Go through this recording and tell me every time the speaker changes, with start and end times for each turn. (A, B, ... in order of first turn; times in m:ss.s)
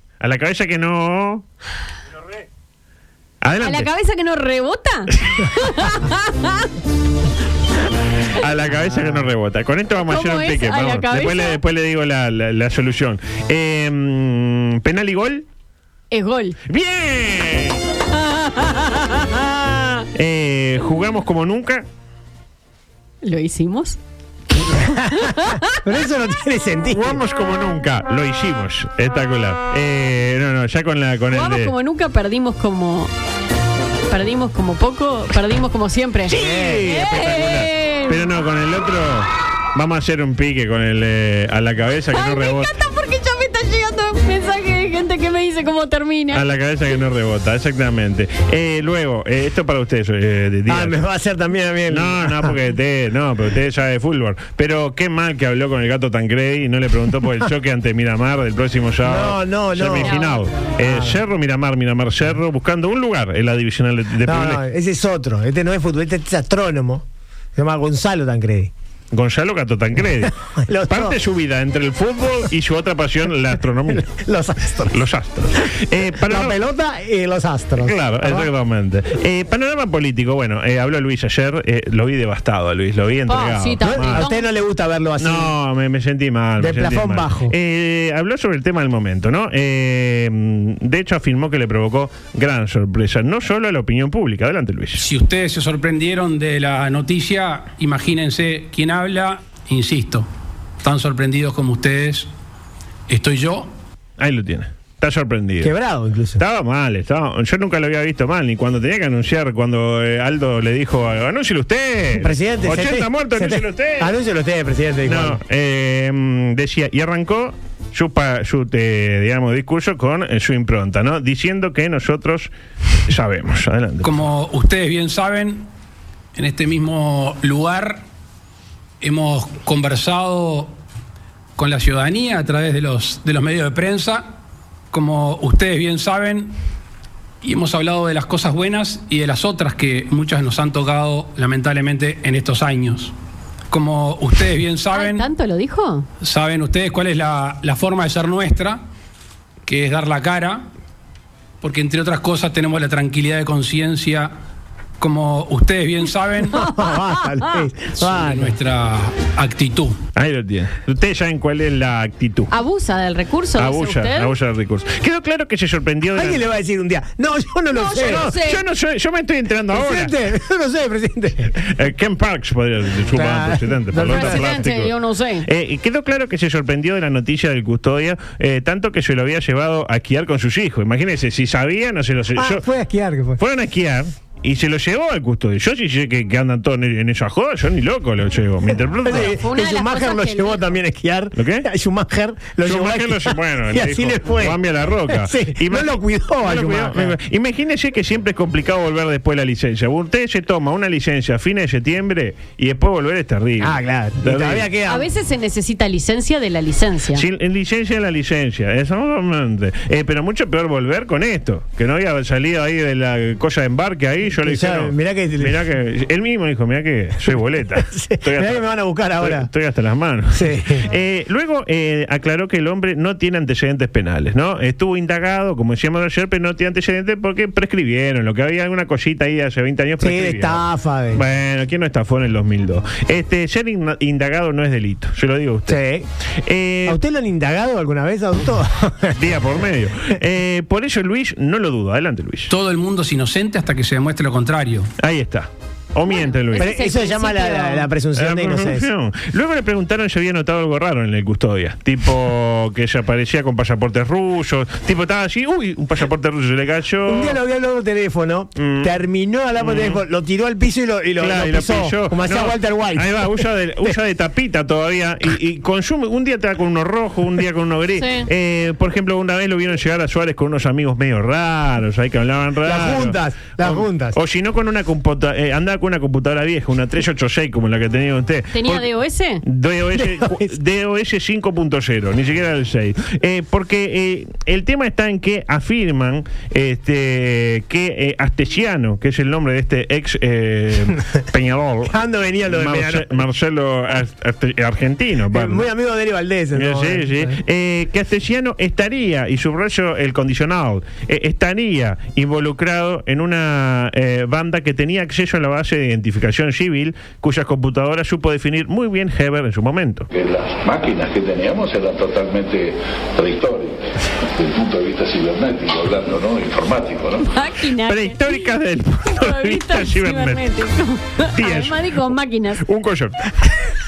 0:00.2-0:01.4 A
0:03.4-0:03.9 A
0:03.6-0:06.7 B
0:08.4-0:15.5 A
0:10.0-0:11.6 B
0:16.1-0:16.6 B
0:16.7-0:17.8 A
0:18.2-0:19.8 B
0:20.2-0:21.9 A
0:23.2-0:24.0 B
0:24.7-0:27.2 C
0:25.0-0:25.6 B
0:26.9-0:31.7 A
0:31.3-0:33.1 B
0:34.1-0:38.3 B
0:36.3-0:42.7 A
0:36.3-0:37.0 C
0:42.1-0:46.4 B
0:46.3-0:51.0 A
0:50.7-0:52.6 C
0:51.9-1:04.6 A
0:59.0-1:00.1 C
1:00.0-1:00.5 B
1:00.8-1:01.2 C
1:04.2-1:07.0 C
1:07.6-1:08.7 C
1:09.1-1:14.1 A
1:10.5-1:11.2 C
1:13.9-1:15.0 C
1:14.9-1:16.6 A
1:16.2-1:18.5 C
1:17.8-1:24.3 A
1:23.3-1:24.5 B
1:23.8-1:25.5 C
1:25.2-1:35.1 A
1:26.6-1:27.6 C
1:35.0-1:40.3 D
1:40.8-1:42.3 D
1:43.1-1:43.7 D
1:44.2-1:45.7 A
1:45.6-1:46.4 C
1:46.4-1:54.2 A
1:52.2-1:55.4 C
1:55.1-2:02.5 A
2:03.1-2:04.3 A
2:04.0-2:05.7 D
2:06.4-2:08.0 D
2:09.0-2:10.8 D
2:11.6-2:14.4 D
2:14.9-2:16.6 D
2:17.4-2:23.2 D
2:23.7-2:25.3 D
2:24.9-2:26.1 B
2:26.2-2:28.8 D
2:29.6-2:30.7 D
2:31.6-2:34.3 D
2:35.0-2:36.7 D
2:36.6-2:38.6 C
2:38.0-2:40.0 D
2:40.2-2:42.5 A
2:42.5-2:44.3 B
2:43.6-2:46.5 A
2:46.1-2:48.4 C
2:47.7-2:48.6 B
2:48.0-2:50.1 A
2:49.7-2:51.6 C
2:51.6-2:54.9 A
2:53.1-2:54.4 C
2:54.1-2:55.5 B
2:55.4-3:02.6 A
3:02.4-3:03.4 C
3:03.4-3:09.4 A
3:09.0-3:17.2 C
3:09.1-3:10.7 B
3:11.4-3:11.7 A
3:12.6-3:24.7 A
3:23.6-3:25.1 C
3:24.9-3:27.2 B
3:27.2-3:55.8 A
3:34.4-3:35.6 C
3:37.8-3:39.5 C
3:40.3-3:40.9 C
3:50.0-3:51.2 C
3:55.7-3:56.1 C
3:56.4-3:57.0 A
3:56.9-3:59.4 C
3:59.2-4:02.5 A
4:02.5-4:04.9 D
4:05.0-4:06.8 A
4:06.1-4:07.9 B
4:06.6-4:08.9 C
4:08.1-4:17.4 A
4:17.1-4:24.0 C
4:18.6-4:18.9 A
4:19.6-4:20.0 A
4:21.2-4:38.9 A
4:28.0-4:28.3 B
4:32.6-4:34.2 C
4:38.5-4:39.4 B
4:39.4-4:55.7 A
4:39.9-4:40.5 C
4:51.9-4:53.3 C
4:55.3-4:57.4 C
4:56.5-5:10.1 A
5:10.1-5:17.3 E
5:17.2-5:18.5 B
5:17.9-5:20.5 A
5:19.1-5:22.6 B
5:21.3-5:22.0 A
5:22.6-5:23.5 A